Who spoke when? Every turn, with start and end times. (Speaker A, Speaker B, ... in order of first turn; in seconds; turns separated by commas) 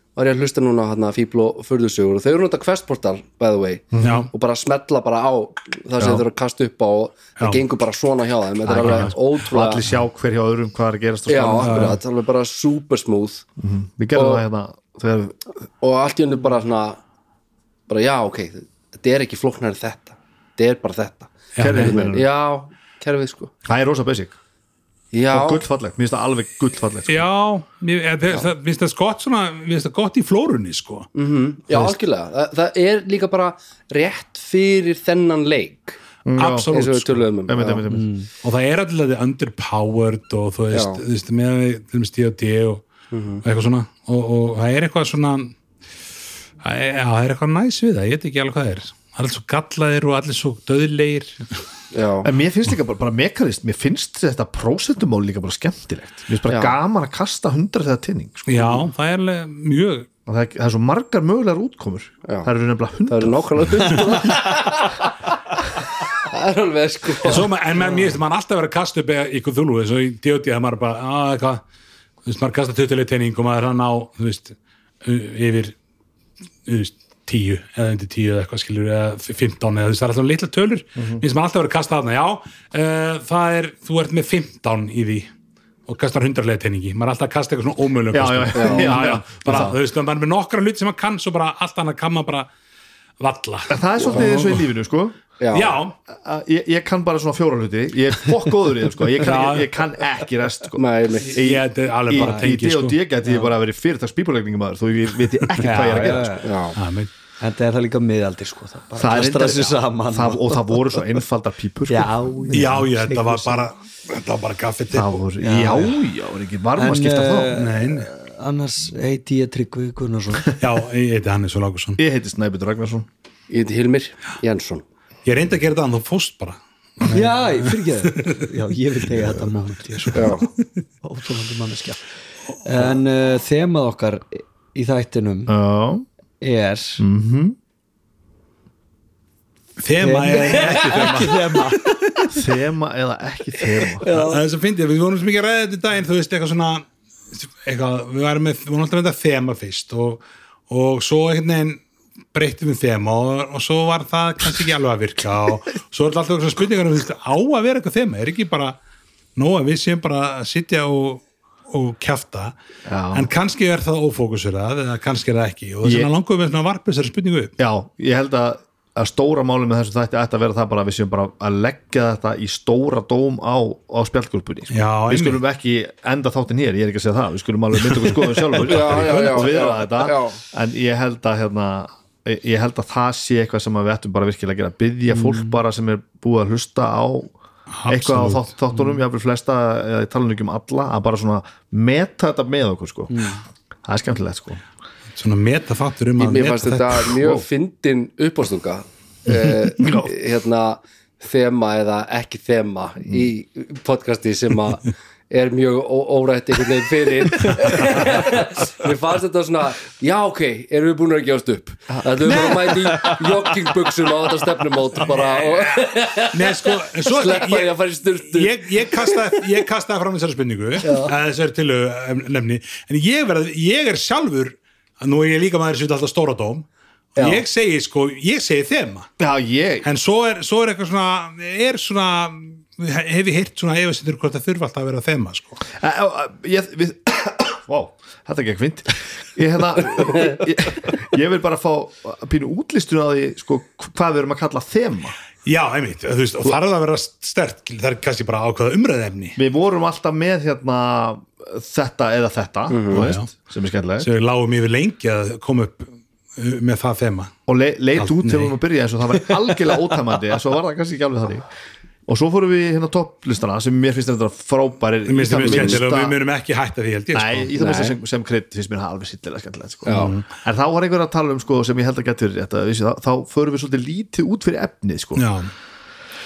Speaker A: 0.2-9.8, Speaker B: 3.9-4.3, Speaker C: 4.0-4.3, Speaker B: 6.0-6.2, Speaker C: 7.4-7.6, Speaker B: 8.7-12.0, Speaker C: 8.8-9.2, Speaker A: 11.3-13.4, Speaker C: 11.6-12.0, Speaker B: 13.6-15.4, Speaker A: 14.2-14.4, Speaker A: 15.8-17.0, Speaker A: 17.9-23.5, Speaker C: 21.6-22.0, Speaker B: 21.7-22.3, Speaker B: 23.6-24.4, Speaker A: 25.1-25.6, Speaker B: 25.3-27.3, Speaker C: 27.1-31.1, Speaker A: 31.1-36.0, Speaker B: 36.3-36.7, Speaker C: 36.4-37.3, Speaker A: 36.7-37.8, Speaker B: 37.5-38.1, Speaker D: 37.9-38.3, Speaker C: 38.4-42.9, Speaker A: 40.7-41.0, Speaker A: 43.1-43.4, Speaker C: 43.4-45.5, Speaker C: 46.6-51.5, Speaker A: 51.9-52.3, Speaker B: 52.2-58.8, Speaker A: 56.5-56.8, Speaker C: 58.5-60.1, Speaker B: 60.3-64.2, Speaker A: 63.1-65.1, Speaker A: 66.2-68.0, Speaker C: 67.2-71.6, Speaker C: 72.2-75.7, Speaker C: 76.7-85.3, Speaker B: 81.0-81.2, Speaker C: 85.9-92.5, Speaker B: 88.1-89.8, Speaker A: 88.5-89.0, Speaker C: 93.2-94.4, Speaker B: 93.7-95.2, Speaker A: 95.4-95.8, Speaker C: 95.5-95.9, Speaker B: 96.1-106.5, Speaker C: 99.2-99.7, Speaker A: 100.8-101.5, Speaker C: 101.3-103.0, Speaker D: 102.2-102.5, Speaker D: 103.2-103.5, Speaker C: 105.6-106.2, Speaker D: 105.6-106.5, Speaker A: 106.4-106.8, Speaker C: 106.8-107.1, Speaker D: 107.4-111.0, Speaker B: 109.0-112.7, Speaker D: 111.9-113.7, Speaker C: 112.5-115.2, Speaker B: 114.9-117.5, Speaker D: 115.4-116.0, Speaker D: 116.8-120.5, Speaker C: 117.5-118.1, Speaker C: 120.6-122.0, Speaker B: 122.0-123.1, Speaker A: 123.5-124.8, Speaker C: 125.2-128.4, Speaker D: 127.1-130.4, Speaker C: 130.0-130.5, Speaker A: 130.2-130.4, Speaker D: 131.0-132.0, Speaker D: 132.6-135.5, Speaker B: 135.5-136.1, Speaker D: 136.4-137.1, Speaker B: 137.0-137.6, Speaker C: 139.8-141.7, Speaker D: 140.0-142.2, Speaker B: 142.3-144.1, Speaker D: 144.0-144.4, Speaker C: 144.1-151.8, Speaker C: 152.3-158.8, Speaker C: 159.4-162.5, Speaker B: 162.9-163.3, Speaker C: 163.1-167.5, Speaker B: 165.8-166.1, Speaker B: 167.6-187.3, Speaker C: 174.7-175.4, Speaker A: 178.6-180.4, Speaker C: 178.7-179.3, Speaker C: 187.7-188.5, Speaker B: 187.9-193.3, Speaker D: 193.1-193.4, Speaker B: 193.8-194.6, Speaker C: 195.2-197.2, Speaker A: 196.2-219.4, Speaker B: 197.2-197.4, Speaker B: 199.8-200.1, Speaker B: 211.9-212.3, Speaker C: 215.1-229.1, Speaker A: 220.8-221.1, Speaker B: 229.2-229.9, Speaker C: 229.8-235.6, Speaker B: 235.7-245.2, Speaker C: 245.4-249.4, Speaker B: 249.4-254.1, Speaker A: 252.7-253.1, Speaker C: 252.9-253.3, Speaker C: 254.0-257.3, Speaker B: 257.5-261.5, Speaker C: 258.0-258.5, Speaker B: 262.1-266.2, Speaker C: 265.1-267.5, Speaker A: 265.5-265.8, Speaker B: 267.1-275.2, Speaker A: 267.6-268.0, Speaker A: 269.9-270.1, Speaker C: 269.9-270.2, Speaker C: 275.2-275.5